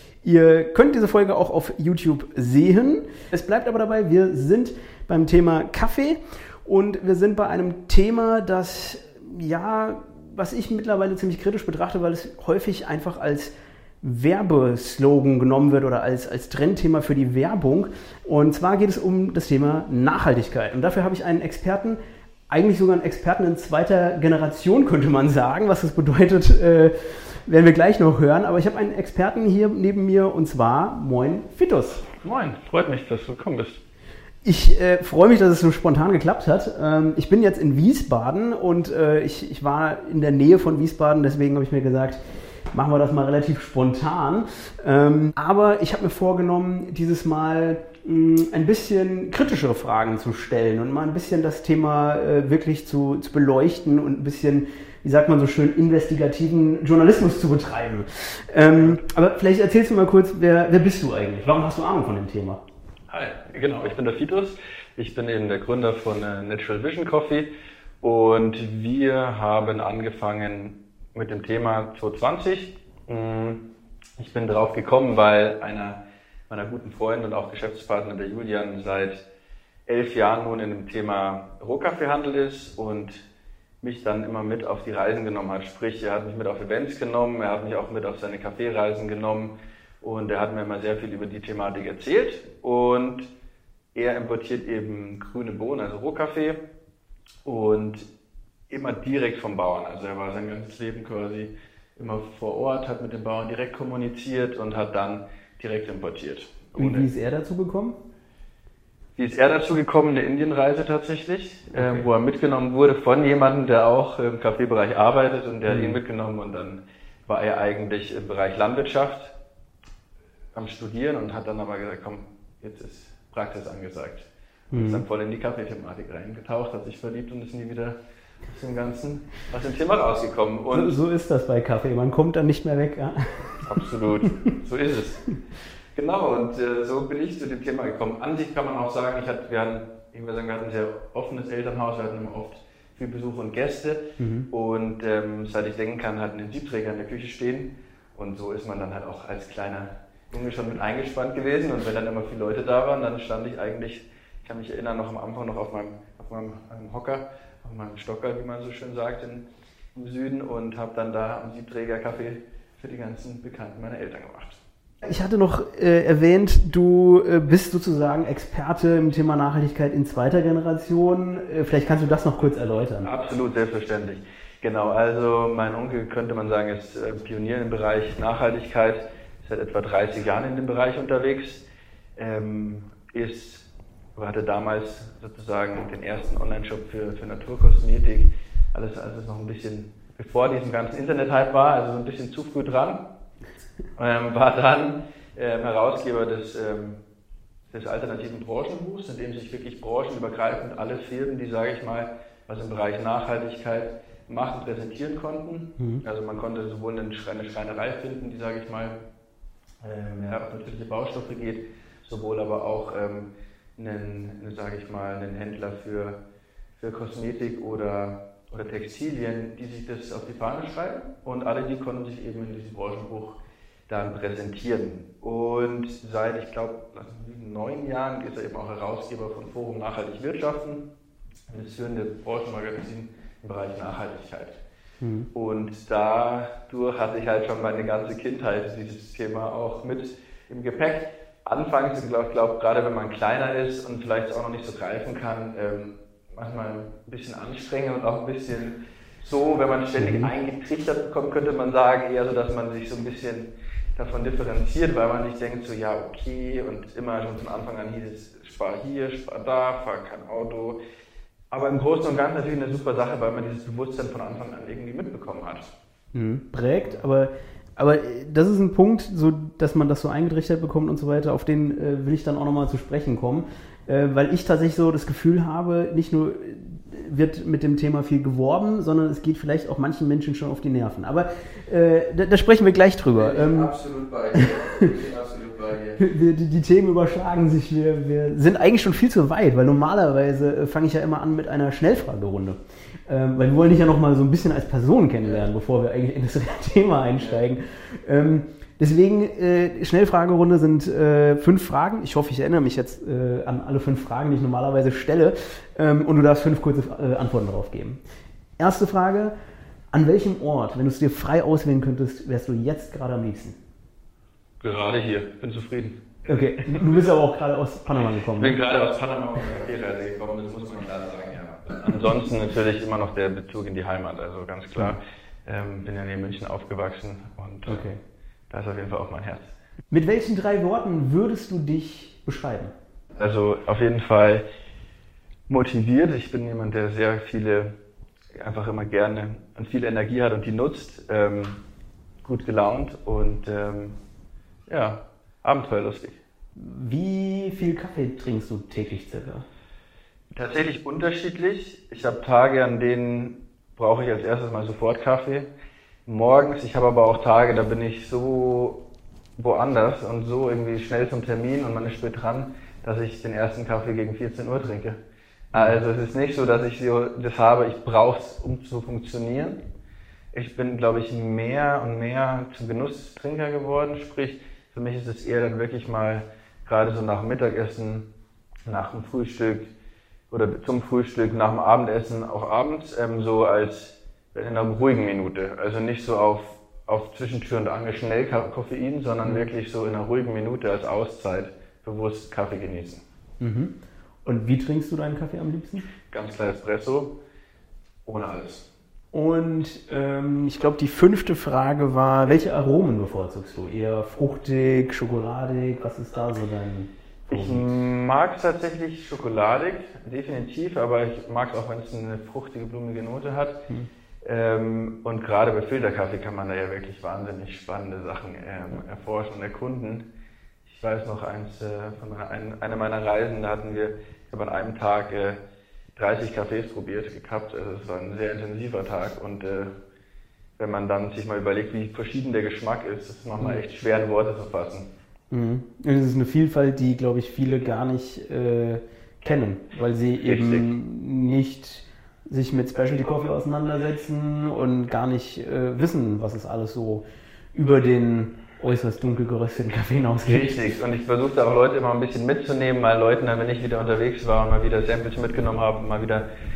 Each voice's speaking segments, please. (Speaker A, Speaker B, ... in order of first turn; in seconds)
Speaker A: 0.2-22.0, 22.5-32.1, 34.4-42.2, 42.7-62.6, 106.8-108.0, 111.8-112.1, 115.7-116.0, 124.7-125.0, 130.7-134.3, 144.2-144.5, 165.0-173.1, 205.8-206.0, 235.0-235.3, 249.9-250.3, 266.1-283.7, 284.3-284.9, 286.0-308.0, 308.6-309.3, 309.9-313.6, 316.3-318.6, 327.7-328.0, 329.9-332.7, 346.6-349.4, 365.5-365.8, 389.2-389.5, 393.4-395.9, 399.1-407.6, 435.3-450.6
Speaker B: 32.2-33.8, 58.8-59.0, 63.1-67.5, 68.0-73.7, 74.2-79.2, 79.9-83.2, 83.8-93.3, 94.0-96.6, 97.5-98.1, 98.7-107.1, 109.2-119.3, 120.5-128.0, 128.5-131.0, 133.6-135.3, 136.0-164.6, 173.0-181.6, 182.2-193.1, 194.0-197.0, 197.7-209.0, 209.8-216.2, 216.8-230.9, 231.5-234.6, 235.3-260.8, 261.5-265.7, 283.2-286.0, 314.6-317.1, 318.3-327.9, 328.5-329.5, 333.2-334.4, 335.5-337.7, 338.3-341.6, 342.2-344.0, 344.7-346.2, 350.4-355.5, 356.1-358.8, 359.4-365.0, 365.5-369.6, 370.3-378.1, 378.6-379.7, 380.3-393.0, 396.1-397.2, 398.1-398.7, 407.3-413.6, 414.2-420.1, 420.6-425.4, 425.9-429.7, 430.6-434.9, 440.2-440.7, 450.2-456.3